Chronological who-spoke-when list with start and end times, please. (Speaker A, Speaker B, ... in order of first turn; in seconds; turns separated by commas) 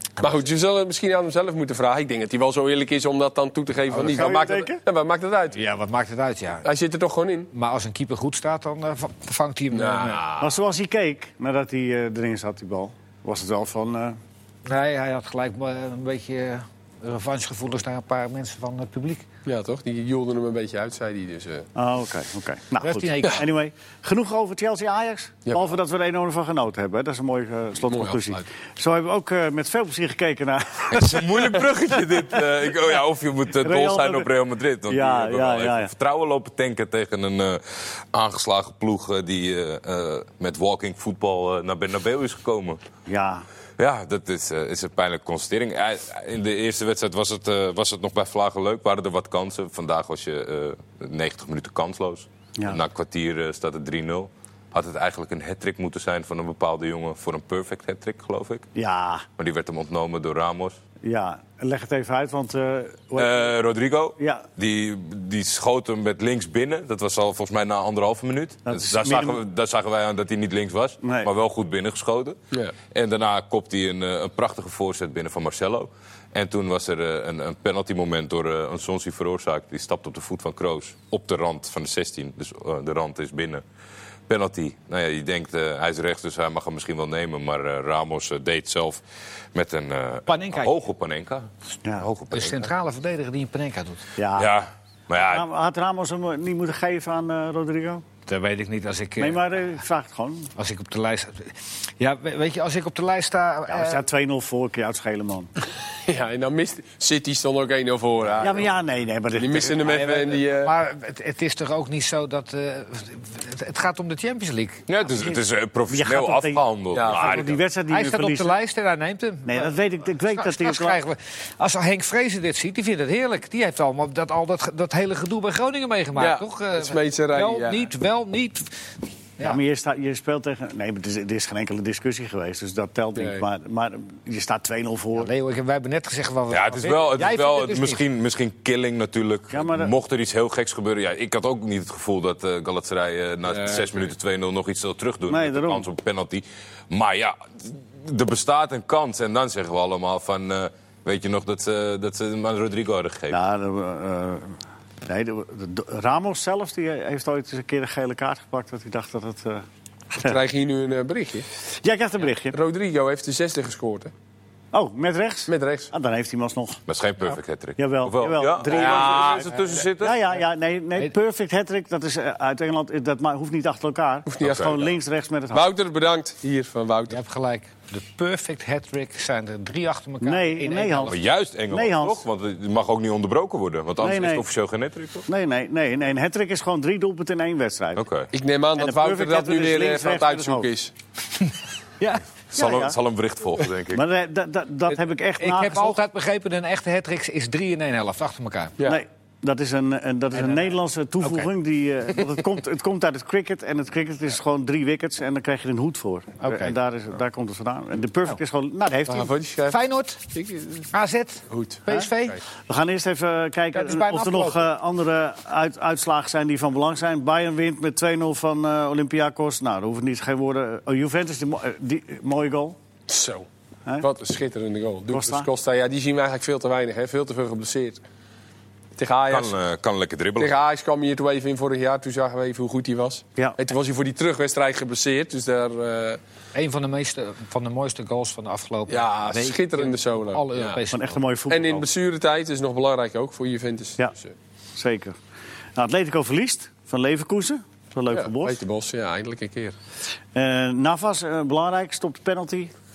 Speaker A: 0.2-5.6, Speaker B: 3.9-4.8, Speaker C: 5.5-6.7, Speaker A: 6.6-7.5, Speaker C: 7.5-10.2, Speaker A: 9.7-10.6, Speaker B: 10.4-14.2, Speaker C: 14.7-19.3, Speaker A: 19.4-21.7, Speaker B: 21.8-31.6, Speaker C: 22.8-23.4, Speaker A: 25.4-25.7, Speaker A: 27.9-28.4, Speaker D: 30.9-42.8, Speaker B: 33.6-34.3, Speaker B: 34.9-35.9, Speaker B: 43.1-43.5, Speaker D: 43.8-58.7, Speaker B: 58.8-59.2, Speaker D: 59.4-60.8, Speaker B: 61.0-63.4, Speaker D: 63.1-72.4, Speaker B: 64.2-64.4, Speaker B: 68.7-69.4, Speaker B: 71.0-71.3, Speaker D: 72.9-83.6, Speaker D: 84.3-89.0, Speaker D: 89.5-92.7, Speaker C: 90.3-90.7, Speaker C: 92.3-94.1, Speaker B: 94.2-94.5, Speaker D: 94.3-95.5, Speaker B: 95.2-98.0, Speaker C: 98.3-99.4, Speaker B: 99.2-100.5, Speaker C: 100.5-104.0, Speaker B: 103.7-105.5, Speaker A: 106.0-108.7, Speaker B: 108.4-109.9, Speaker A: 109.3-110.7, Speaker C: 109.8-114.8, Speaker D: 114.9-117.6, Speaker B: 115.2-118.5, Speaker A: 116.9-117.4, Speaker C: 117.9-128.7, Speaker B: 119.5-121.0, Speaker A: 126.2-127.9, Speaker B: 129.4-135.3, Speaker A: 133.1-133.4, Speaker C: 135.2-138.0, Speaker D: 136.5-153.4, Speaker B: 139.5-139.9, Speaker A: 143.5-144.0, Speaker B: 145.3-145.8, Speaker B: 153.3-154.5, Speaker B: 155.0-159.6, Speaker A: 160.2-161.5, Speaker B: 161.8-162.6, Speaker A: 162.5-164.1, Speaker B: 164.7-166.8, Speaker A: 165.5-165.9, Speaker D: 166.9-170.3, Speaker B: 167.8-175.6, Speaker A: 168.7-169.8, Speaker A: 174.3-174.8, Speaker D: 174.4-174.8, Speaker A: 175.5-177.2, Speaker C: 177.1-181.2, Speaker B: 180.2-182.2, Speaker D: 181.1-185.2, Speaker B: 184.0-184.4, Speaker B: 185.3-188.0, Speaker D: 187.9-188.3, Speaker A: 188.3-190.9, Speaker B: 188.8-190.7, Speaker D: 192.5-194.0, Speaker B: 192.5-192.9, Speaker B: 193.9-196.0, Speaker C: 195.4-198.8, Speaker B: 198.8-209.3, Speaker C: 200.4-200.7, Speaker C: 201.2-201.5, Speaker C: 206.4-206.7, Speaker A: 209.1-209.8, Speaker C: 209.7-210.2, Speaker A: 210.3-210.9, Speaker C: 210.9-212.4, Speaker A: 211.5-211.8, Speaker B: 212.7-222.8, Speaker C: 213.7-214.7, Speaker A: 223.1-223.5, Speaker A: 224.0-228.0, Speaker B: 225.1-225.5, Speaker A: 229.0-229.5, Speaker D: 229.3-230.5, Speaker A: 230.4-236.2, Speaker C: 236.5-241.2, Speaker A: 238.9-240.8, Speaker B: 240.9-241.8, Speaker A: 241.5-244.3, Speaker B: 244.8-245.2, Speaker B: 245.8-248.6, Speaker A: 248.1-249.8, Speaker B: 250.3-252.7